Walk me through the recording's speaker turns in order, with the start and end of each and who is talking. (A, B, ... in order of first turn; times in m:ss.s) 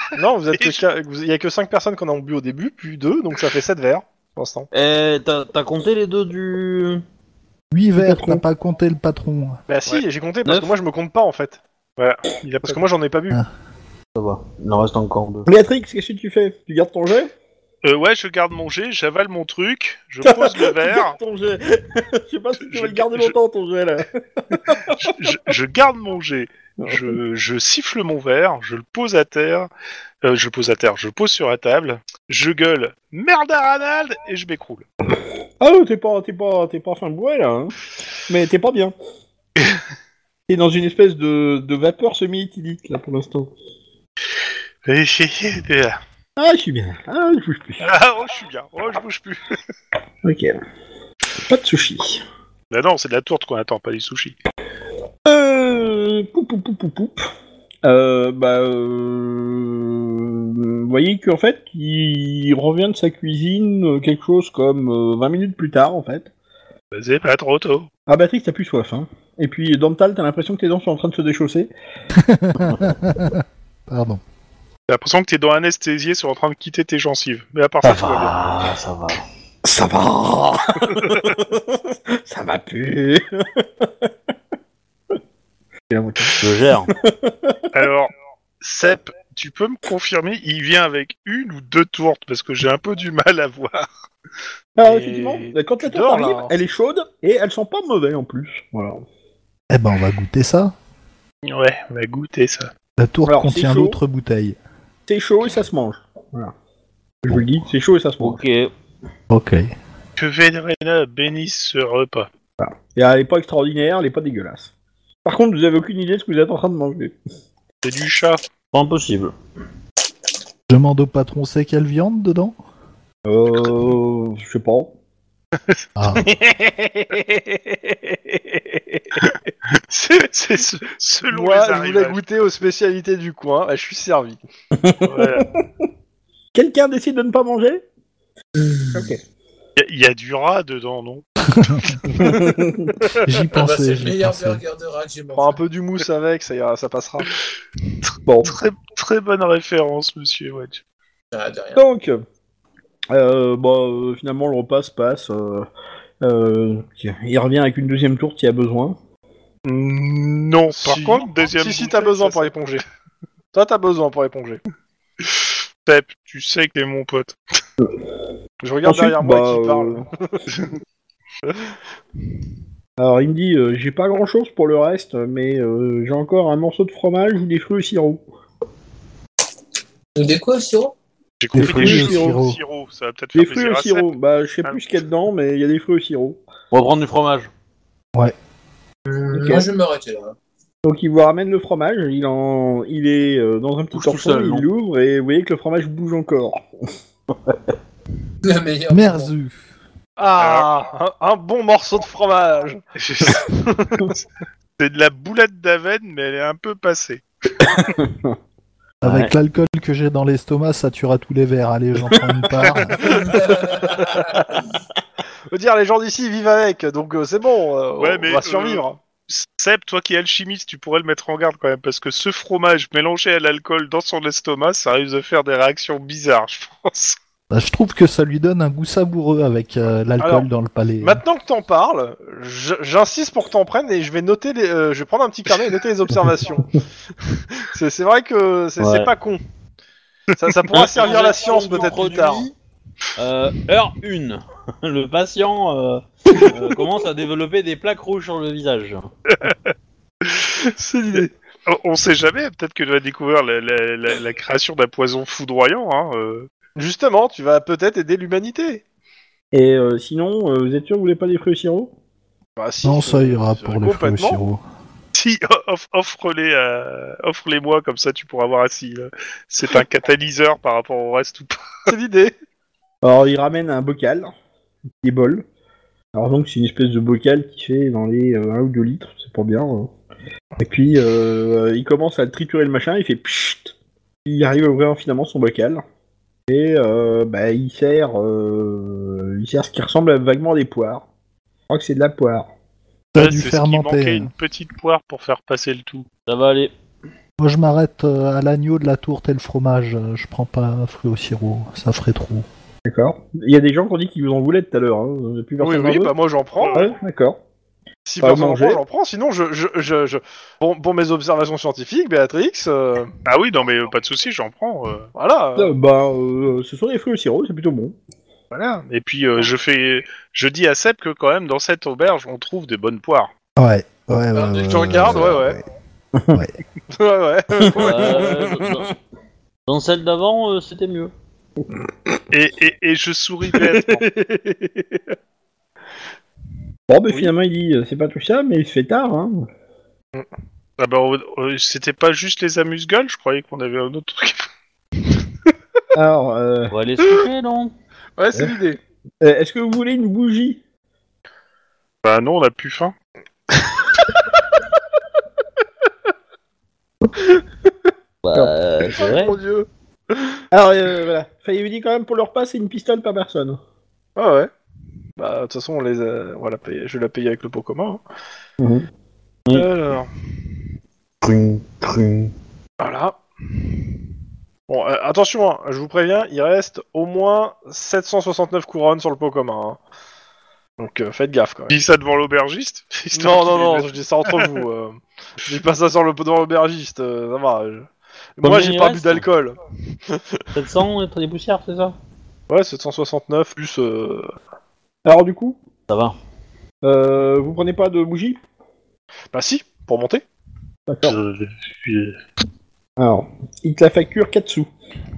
0:00.2-0:04.7 A
0:00.5-0:00.8 B
0:04.7-0:07.0 C
0:07.7-0:09.6 D
0:08.0-0:08.4 E
0:09.7-0:11.6 A
0:10.4-0:10.7 C
0:12.0-0:12.8 B
0:12.6-0:13.4 A
0:14.1-0:15.5 C
0:15.5-0:17.3 E
0:17.8-0:21.2 B
0:20.2-0:25.4 E
0:22.6-0:23.3 B
0:24.9-0:29.7 B
0:26.8-0:27.2 E
0:30.2-0:34.8 B
0:35.6-0:37.8 E
0:38.3-0:38.9 E
0:40.5-0:43.5 E
0:44.8-0:46.0 B
0:46.4-0:47.8 E
0:47.8-0:49.6 B
0:50.2-0:50.6 E
0:51.4-0:52.2 E
0:52.7-0:54.4 B
0:55.2-0:57.2 E
0:57.8-1:06.3 E
1:06.9-1:07.9 B
1:08.1-1:11.7 E
1:12.1-1:14.2 D
1:14.9-1:18.4 B
1:17.8-1:19.2 C
1:19.6-1:24.1 E
1:25.9-1:27.7 E
1:26.4-1:26.9 C
1:27.7-1:33.9 B
1:34.8-1:39.0 E
1:34.8-1:36.6 A
1:39.7-1:40.7 D
1:41.4-1:42.7 B
1:43.0-1:44.6 D
1:43.2-1:44.0 E
1:45.1-1:46.5 E
1:47.2-1:48.4 E
1:48.2-1:48.7 C
1:49.3-1:49.7 D
1:50.2-1:52.3 B
1:52.6-1:54.7 E
1:55.2-1:57.1 E
1:57.8-1:58.4 B
1:58.7-1:59.3 C
2:00.7-2:02.6 D
2:03.2-2:04.9 E
2:05.6-2:06.5 B
2:06.0-2:06.2 D
2:06.3-2:09.0 A
2:09.2-2:12.2 B
2:11.3-2:14.4 A
2:14.7-2:15.6 E
2:15.0-2:15.5 B
2:16.5-2:17.8 E
2:18.9-2:19.2 E
2:19.8-2:22.3 B
2:21.5-2:21.9 D
2:22.2-2:23.0 E
2:23.2-2:24.6 D
2:23.5-2:25.6 F
2:25.3-2:27.3 A
2:28.2-2:28.6 E
2:28.4-2:30.8 B
2:31.3-2:31.8 F
2:31.7-2:32.2 E
2:33.1-2:35.7 E
2:36.2-2:39.0 E
2:39.6-2:42.5 B
2:40.7-2:42.8 A
2:43.5-2:44.6 A
2:45.2-2:47.4 B
2:48.6-2:50.4 A
2:48.8-2:50.0 E
2:53.0-2:58.2 E
3:00.2-3:00.9 F
3:01.4-3:05.0 B
3:01.5-3:02.6 D
3:01.6-3:02.4 E
3:03.4-3:06.4 E
3:06.7-3:07.5 C
3:09.0-3:10.3 F
3:09.3-3:09.6 E
3:10.8-3:16.6 E
3:13.9-3:14.7 C
3:18.4-3:19.3 F
3:18.9-3:19.6 D
3:20.2-3:24.1 A
3:20.4-3:20.7 B
3:23.0-3:23.4 B
3:24.8-3:27.8 B
3:27.8-3:28.4 E
3:29.0-3:29.3 C
3:29.0-3:33.1 D
3:32.6-3:33.4 B
3:33.2-3:34.2 F
3:35.5-3:39.0 A
3:38.0-3:47.2 B
3:47.5-3:51.2 D
3:50.2-3:50.5 A
3:51.0-3:56.8 A
3:57.5-3:59.4 A
3:58.8-3:59.1 C
4:00.4-4:02.5 A
4:00.7-4:02.5 C
4:03.2-4:09.0 C
4:10.3-4:11.3 A
4:11.6-4:16.5 B
4:16.8-4:18.8 A
4:19.5-4:21.9 E
4:22.6-4:24.4 A
4:22.8-4:24.6 D
4:25.1-4:31.7 B
4:31.9-4:32.3 A
4:33.0-4:34.3 E
4:35.0-4:35.4 E
4:36.1-4:39.9 E
4:40.6-4:45.8 E
4:46.5-4:51.0 E
4:51.7-4:52.5 E
4:53.1-4:54.3 D
4:53.2-4:56.1 B
4:56.3-4:56.7 C
4:57.4-5:02.5 D
5:02.8-5:06.1 E
5:05.6-5:06.9 A
5:06.7-5:07.4 E
5:08.1-5:13.1 A
5:08.2-5:08.8 E
5:13.2-5:15.1 B
5:15.1-5:15.7 A
5:15.6-5:17.9 E
5:18.5-5:23.3 B
5:23.6-5:25.6 D
5:24.4-5:25.6 A
5:26.9-5:28.4 A
5:27.6-5:28.7 E
5:27.7-5:28.9 C
5:29.7-5:31.1 C
5:32.3-5:34.0 B
5:33.5-5:35.0 A
5:36.9-5:39.5 E
5:40.8-5:44.5 B
5:45.9-5:46.7 E
5:46.7-5:47.7 C
5:48.2-5:48.8 A
5:49.2-5:50.6 E
5:52.0-5:52.9 B
5:58.2-5:59.4 C
5:58.8-6:00.4 A
6:00.5-6:03.6 E
6:04.2-6:04.5 A
6:05.2-6:08.0 A
6:08.6-6:08.8 E
6:09.5-6:10.1 A
6:11.2-6:12.3 C
6:12.8-6:13.2 A
6:14.7-6:19.8 A
6:20.8-6:21.8 A
6:21.7-6:24.5 B
6:23.1-6:29.6 A
6:28.4-6:29.2 C
6:30.5-6:31.9 C
6:32.5-6:34.3 A
6:35.0-6:35.6 E
6:35.9-6:36.2 C
6:36.8-6:38.4 E
6:39.3-6:40.2 A
6:40.9-6:41.2 E
6:41.0-6:42.2 B
6:43.0-6:44.7 E